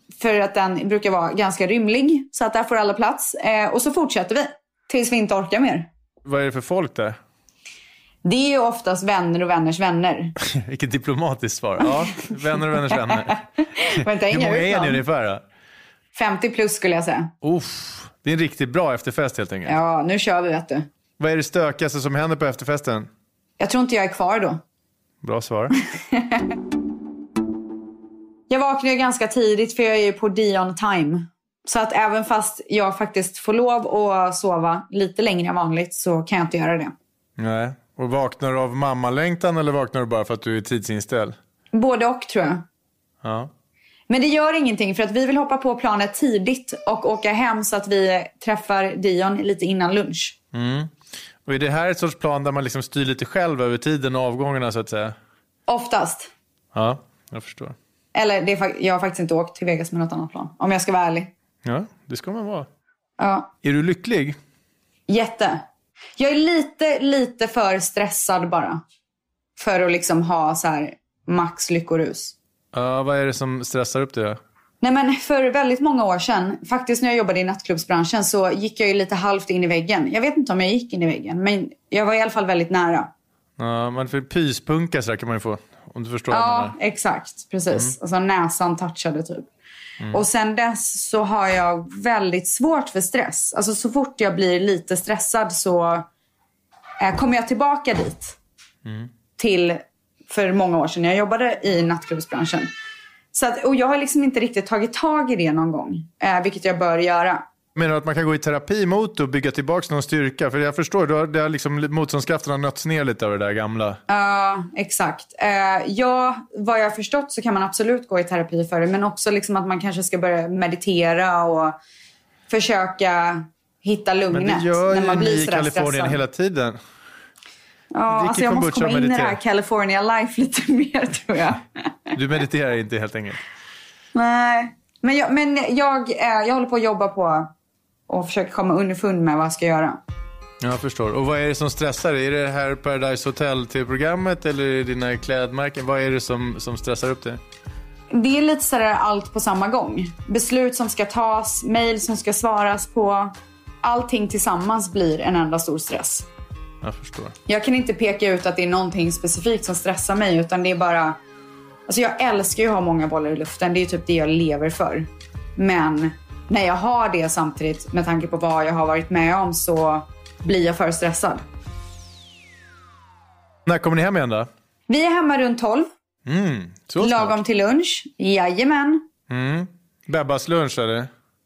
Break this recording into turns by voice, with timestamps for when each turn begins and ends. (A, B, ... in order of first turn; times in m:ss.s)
0:00.2-0:05.9 A
0:06.2-0:07.2 B
0:08.2-0:10.4 A
0:10.4-0:15.4 B
0:12.5-0:15.0 A
0:16.1-0:17.3 A
0:17.4-0:19.8 B
0:19.7-0:20.9 A
0:21.2-0:23.1 B
0:23.6-0:24.6 A
0:25.2-0:25.7 B
0:26.0-0:26.6 A
0:28.5-0:36.9 A
0:37.4-0:41.4 B
0:41.7-0:42.6 A
0:43.2-0:43.5 B
0:44.1-0:50.4 A
0:50.5-0:50.9 B
0:51.5-0:55.1 B
0:55.7-0:56.3 A
0:56.7-0:57.8 B
0:58.2-1:01.3 A
1:01.6-1:02.7 B
1:03.2-1:03.5 A
1:03.6-1:04.4 B
1:05.1-1:05.6 A
1:06.2-1:08.8 A
1:09.6-1:12.4 A
1:12.7-1:14.4 B
1:14.8-1:23.1 A
1:23.6-1:26.8 B
1:26.3-1:29.5 A
1:30.1-1:36.1 A
1:37.0-1:38.4 A
1:39.4-1:42.7 A
1:43.3-1:47.4 A
1:47.8-1:54.0 B
1:54.1-2:01.8 A
2:02.5-2:06.2 A
2:04.3-2:06.8 B
2:07.9-2:12.1 A
2:08.1-2:09.4 B
2:12.1-2:13.4 B
2:14.2-2:17.5 A
2:18.1-2:20.0 A
2:20.6-2:27.4 B
2:28.1-2:36.3 A
2:36.8-2:37.3 B
2:37.5-2:41.2 A
2:41.9-2:51.4 A
2:53.7-2:54.5 B
2:54.9-2:55.9 A
2:56.3-2:57.4 B
2:57.0-2:59.0 A
2:59.3-3:01.1 B